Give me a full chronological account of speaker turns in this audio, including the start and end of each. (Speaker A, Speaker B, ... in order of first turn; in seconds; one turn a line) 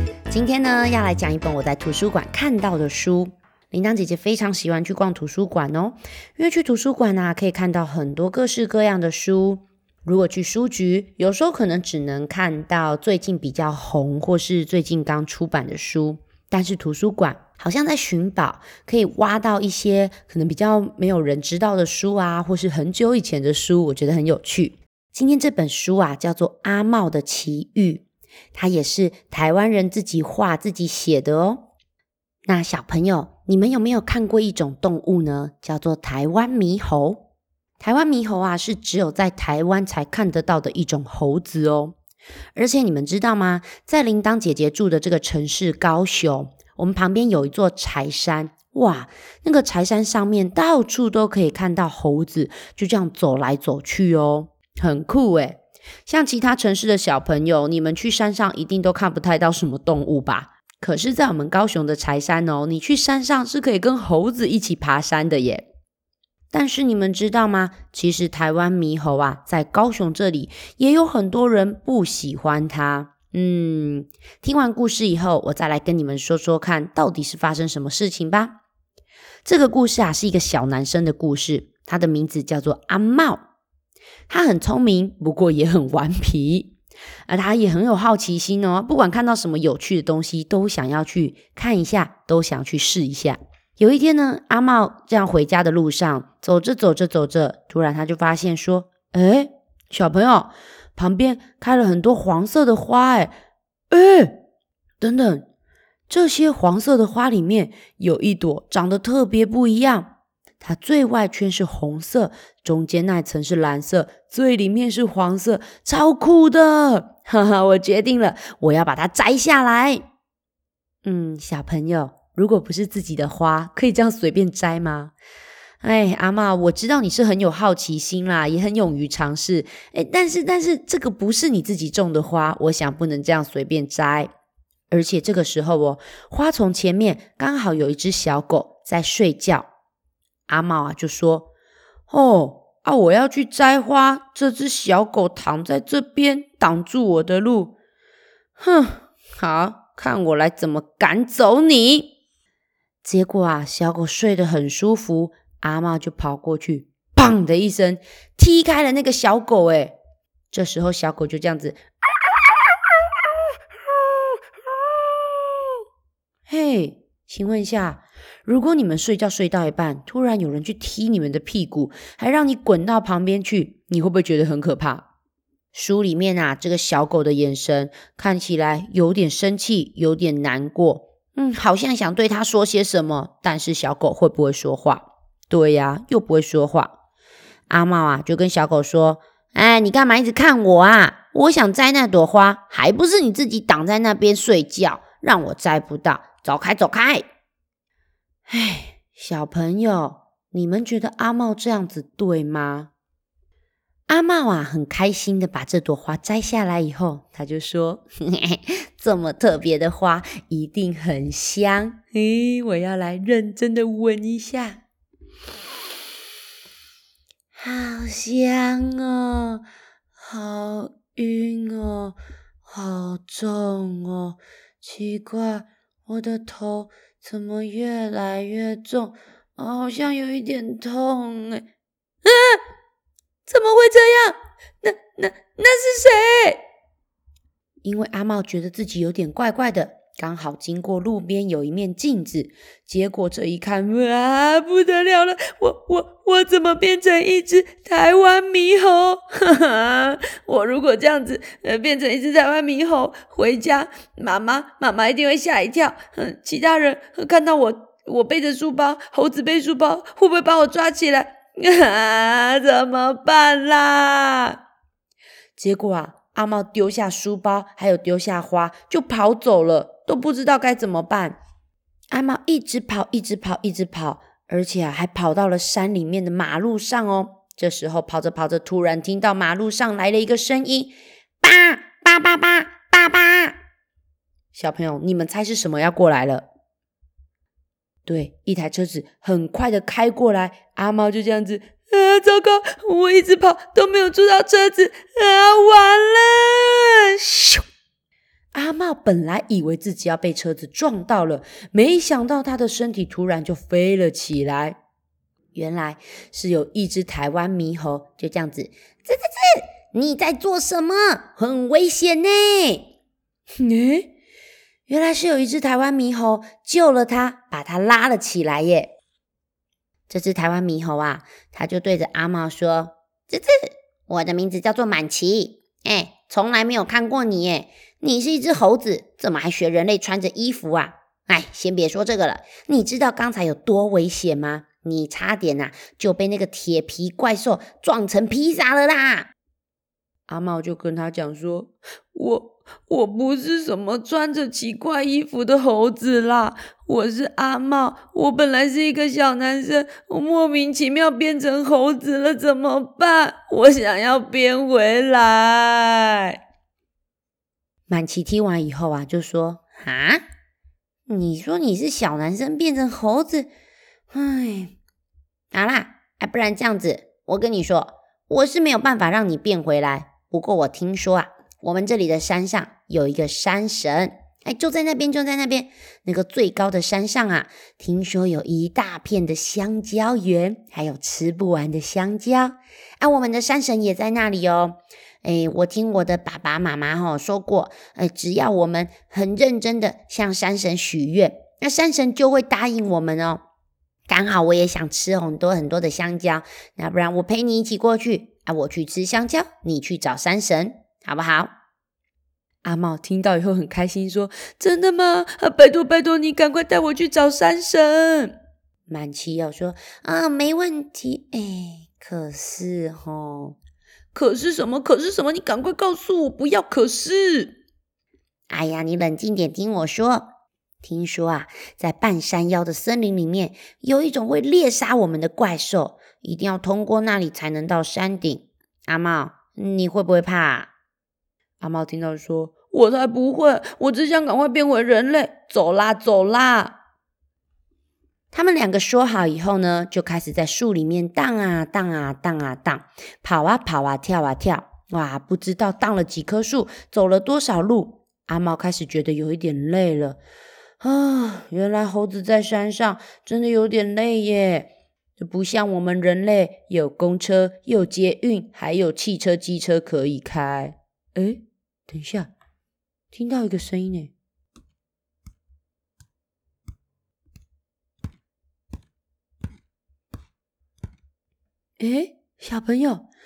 Speaker A: 0.3-31.7
Speaker A: 32.5-37.3
Speaker A: 37.8-42.0
Speaker A: 42.5-65.7
Speaker A: 66.5-78.6
Speaker A: 79.4-83.4
Speaker A: 84.3-86.8
Speaker A: 87.3-103.3
Speaker A: 103.9-104.4
Speaker A: 105.0-105.5
Speaker A: 106.1-120.0
Speaker A: 121.0-125.1
Speaker A: 125.8-134.3
Speaker A: 134.9-139.7
Speaker A: 140.5-141.5
Speaker A: 142.1-147.8
Speaker A: 148.6-152.1
Speaker A: 153.0-160.0
Speaker A: 160.5-161.8
Speaker A: 166.5-175.1
Speaker A: 175.7-187.0
Speaker A: 187.7-197.2
Speaker A: 198.5-202.9
Speaker A: 204.1-214.8
Speaker A: 217.6-219.6
Speaker A: 220.2-222.2
Speaker A: 222.7-231.6
Speaker A: 232.2-232.6
Speaker A: 233.5-236.6
Speaker A: 237.8-264.6
Speaker A: 265.6-271.4
Speaker A: 272.1-283.6
Speaker A: 284.5-286.5
Speaker A: 288.1-297.6
Speaker A: 298.5-304.8
Speaker A: 305.5-312.9
Speaker A: 313.6-314.1
Speaker A: 314.9-318.9
Speaker A: 320.1-339.3
Speaker A: 340.3-356.4
Speaker A: 357.9-360.2
Speaker A: 361.1-363.5
Speaker A: 364.1-364.8
Speaker A: 365.5-393.4
Speaker A: 394.1-401.5
Speaker A: 402.6-408.4
Speaker A: 408.9-413.6
Speaker A: 414.1-417.6
Speaker A: 418.5-420.3
Speaker A: 420.8-430.7
Speaker A: 431.6-436.8
Speaker A: 438.3-450.2
Speaker A: 450.8-462.3
Speaker A: 463.1-464.1
Speaker A: 471.8-473.1